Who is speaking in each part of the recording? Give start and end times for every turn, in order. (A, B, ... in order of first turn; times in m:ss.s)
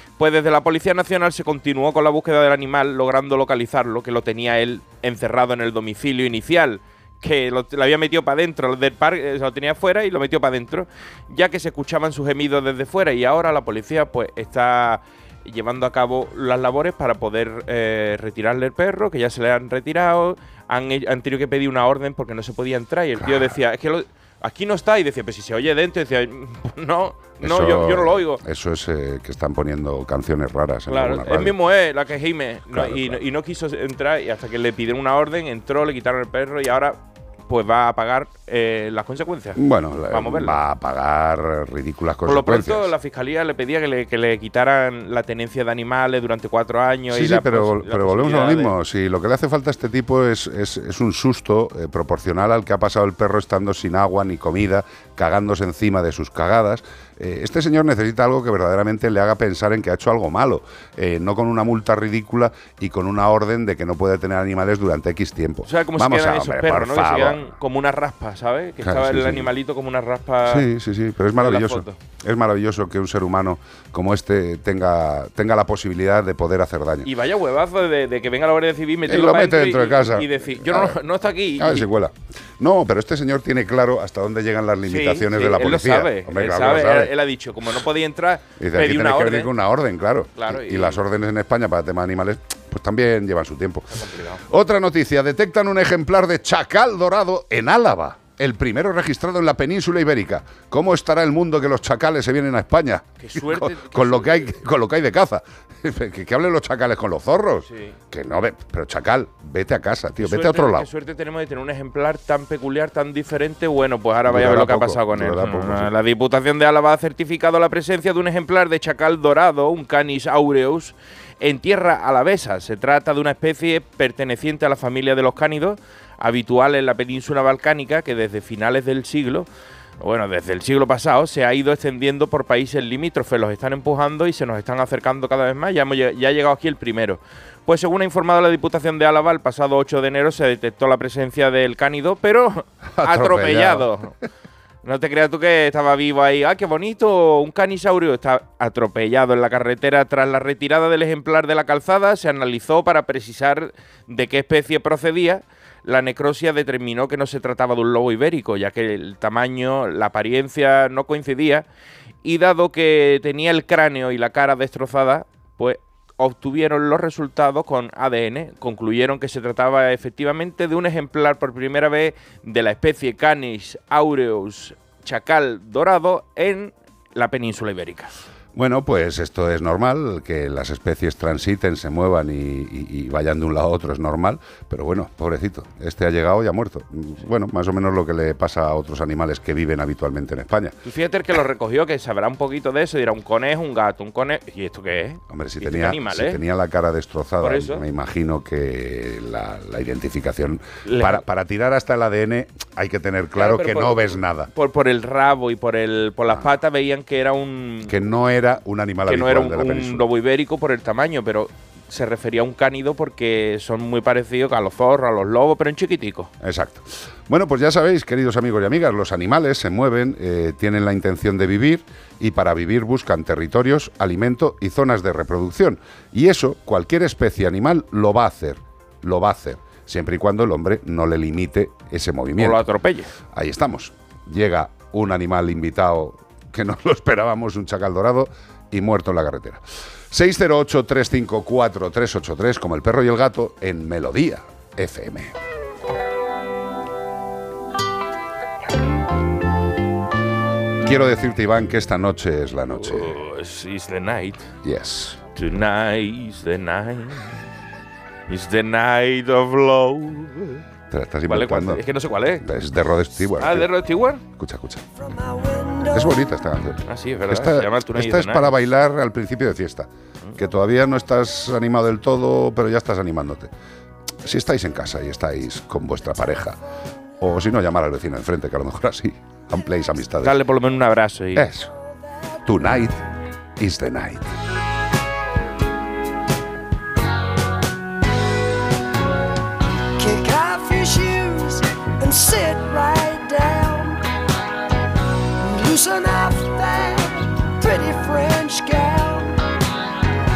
0:00.2-0:28.4 A
0:23.2-0:23.6 B
0:27.4-0:31.6 B
0:30.9-0:39.6 A
0:32.7-0:33.2 B
0:39.6-0:42.9 B
0:40.1-0:40.6 A
0:42.2-0:48.7 A
0:47.1-1:07.5 B
1:05.6-1:10.6 A
1:08.8-1:09.5 B
1:10.4-1:17.1 B
1:11.4-1:12.0 A
1:17.0-1:21.9 A
1:19.1-1:21.0 B
1:21.6-1:27.1 B
1:24.9-1:29.5 A
1:28.6-1:33.9 B
1:30.4-1:31.0 A
1:33.9-1:34.4 A
1:34.5-1:50.9 B
1:43.2-1:44.4 A
1:47.7-1:47.9 A
1:50.2-2:09.5 A
1:54.2-1:55.9 B
2:10.0-2:24.1 A
2:23.0-2:23.9 B
2:24.8-2:41.6 A
2:42.2-2:58.1 A
2:58.5-3:10.8 B
3:10.8-3:16.4 A
3:15.3-3:24.5 B
3:17.4-3:17.8 A
3:20.8-3:21.2 A
3:23.4-3:28.0 A
3:27.9-3:30.0 B
3:29.1-3:36.3 A
3:36.4-3:52.6 B
3:52.4-3:53.1 A
3:53.3-4:05.3 B
4:10.8-4:13.2 B
4:12.8-4:14.5 A
4:14.6-4:15.2 B
4:15.3-4:17.3 A
4:18.3-4:20.6 A
4:20.9-4:21.8 B
4:21.3-4:22.4 A
4:22.4-4:23.7 B
4:23.4-4:24.2 A
4:24.4-4:24.8 B
4:25.0-4:26.3 C
4:25.9-4:33.5 B
4:26.9-4:28.5 A
4:34.2-4:36.6 B
4:37.2-4:40.4 B
4:40.2-4:41.5 A
4:41.4-4:41.7 B
4:42.5-4:43.0 B
4:43.6-4:44.3 B
4:50.0-4:54.0 C
4:55.4-4:59.4 C